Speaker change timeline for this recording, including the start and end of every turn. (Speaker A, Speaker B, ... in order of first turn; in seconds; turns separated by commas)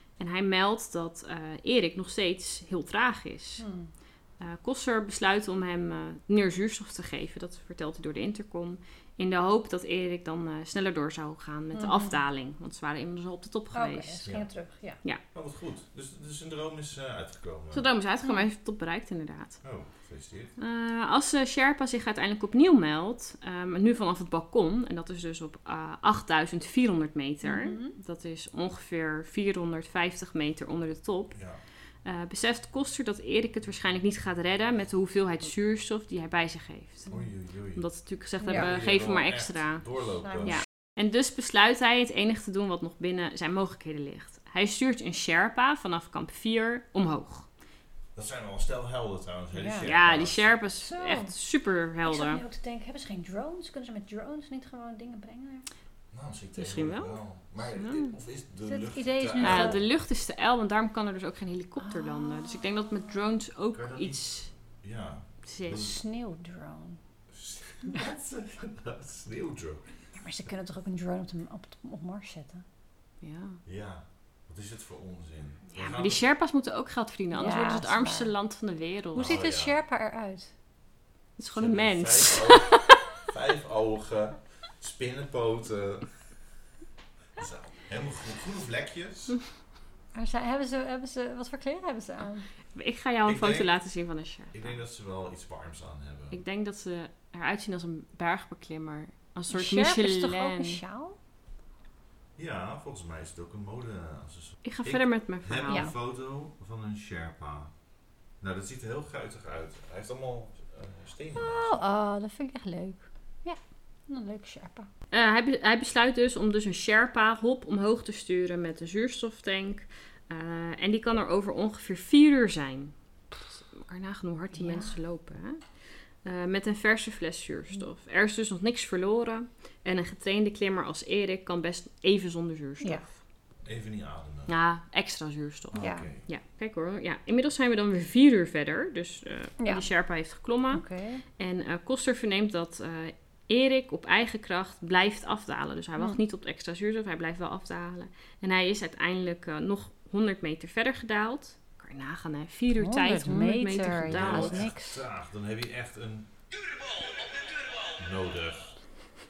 Speaker A: 0.2-3.6, Speaker B: 3.6-3.9, Speaker A: 4.4-14.3, Speaker B: 11.7-12.2, Speaker B: 13.7-15.0, Speaker C: 15.3-17.9, Speaker A: 17.7-19.6, Speaker C: 19.6-20.5, Speaker A: 20.6-31.4, Speaker B: 27.4-28.0, Speaker C: 31.3-31.6, Speaker A: 32.0-37.1, Speaker C: 37.1-37.9, Speaker A: 37.7-39.9, Speaker B: 38.4-38.7, Speaker C: 38.5-40.6, Speaker B: 40.2-40.6, Speaker A: 40.4-47.5, Speaker C: 48.1-50.5, Speaker B: 49.5-49.9, Speaker A: 49.8-52.4, Speaker B: 50.8-51.3, Speaker B: 52.0-55.7, Speaker C: 56.1-59.9, Speaker A: 56.6-58.1, Speaker B: 58.6-59.8, Speaker A: 59.4-64.5, Speaker B: 61.8-62.9, Speaker C: 63.7-64.2, Speaker C: 64.8-66.0, Speaker A: 65.5-65.9, Speaker B: 65.7-67.0, Speaker C: 67.3-69.9, Speaker B: 70.2-72.7, Speaker A: 73.2-73.6, Speaker C: 73.7-76.2, Speaker A: 75.7-79.4, Speaker B: 77.3-78.3, Speaker C: 79.1-79.8, Speaker B: 79.2-80.5, Speaker A: 81.4-83.0, Speaker C: 81.5-86.1, Speaker C: 87.4-89.4, Speaker B: 90.1-92.5, Speaker A: 92.7-94.8, Speaker C: 93.3-93.7, Speaker C: 94.5-96.4, Speaker A: 96.3-100.8, Speaker B: 99.5-101.2, Speaker C: 102.4-107.7, Speaker A: 104.7-105.9, Speaker C: 108.4-111.8, Speaker B: 111.4-114.9, Speaker A: 115.1-125.6, Speaker B: 124.5-125.0, Speaker A: 126.2-133.2, Speaker C: 133.6-134.6, Speaker A: 134.5-140.8, Speaker C: 135.7-136.2, Speaker B: 135.8-136.1, Speaker B: 139.6-139.9, Speaker B: 140.7-141.2, Speaker A: 141.4-154.7, Speaker B: 152.8-155.0, Speaker C: 154.1-156.3, Speaker C: 158.0-158.8